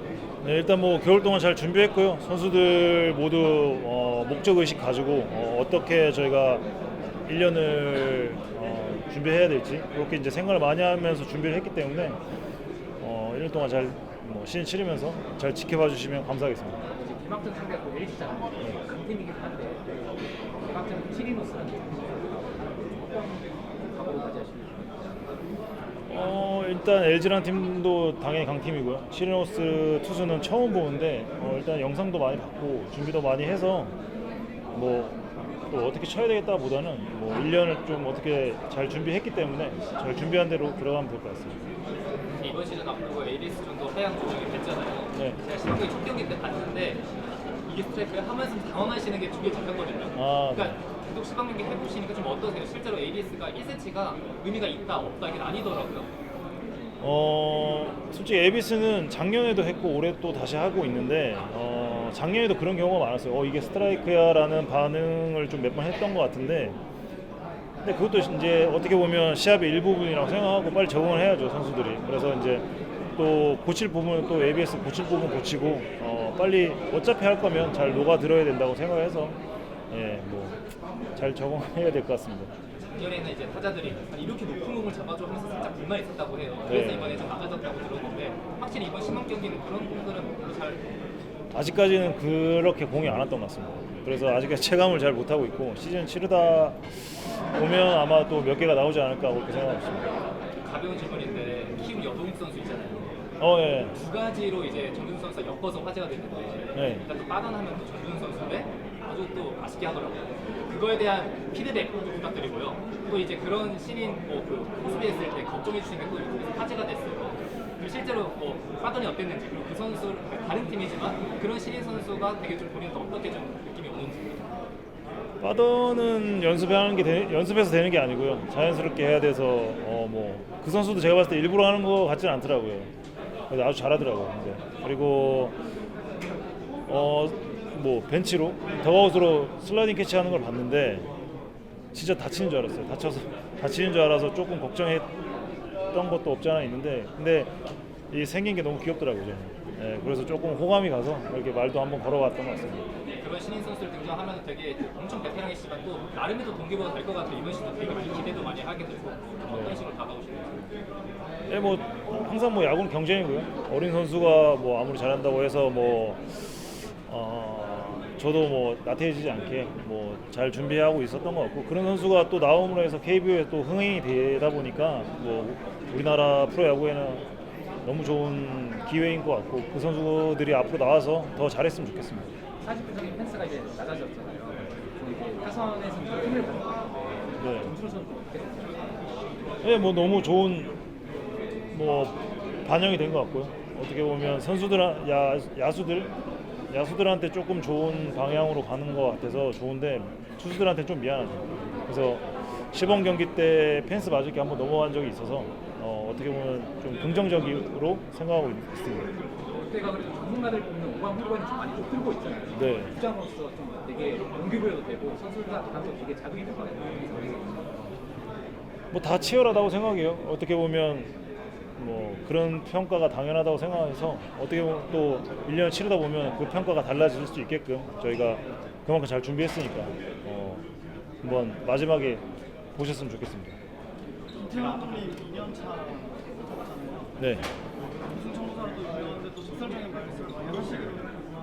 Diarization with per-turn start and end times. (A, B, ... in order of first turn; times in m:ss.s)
0:00.4-0:06.6 A
0:07.2-0:12.2 A
0:13.0-0:16.8 A
0:16.9-0:20.1 B
0:20.6-0:25.1 B
0:26.1-0:33.9 A
0:34.7-0:35.2 A
0:35.7-0:41.6 A
0:42.4-0:47.1 C
0:47.6-0:56.1 C
0:50.1-0:50.8 A
0:57.0-1:06.8 A
1:07.8-1:19.4 A
1:19.9-1:20.6 A
1:21.1-1:22.5 A
1:22.9-1:30.8 C
1:26.7-1:27.3 A
1:31.5-1:40.1 A
1:40.6-1:43.1 C
1:43.4-1:43.9 A
1:43.9-2:04.5 C
1:46.7-1:47.0 A
2:05.4-2:12.9 A
2:13.5-2:15.6 A
2:16.8-2:21.1 A
2:21.9-2:25.1 A
2:25.9-2:27.5 A
2:28.1-2:32.9 A
2:33.1-2:40.7 C
2:39.5-2:39.8 A
2:41.5-2:57.2 A
2:57.8-3:02.3 A
3:02.6-3:09.0 B
3:07.4-3:07.8 A
3:09.6-3:10.8 A
3:11.7-3:16.1 A
3:16.7-3:29.1 A
3:29.5-3:37.8 B
3:32.5-3:33.0 A
3:38.9-3:41.1 A
3:41.8-3:50.6 A
3:51.2-3:53.6 A
3:54.3-3:57.1 D
3:57.2-3:57.5 A
3:58.1-4:01.2 D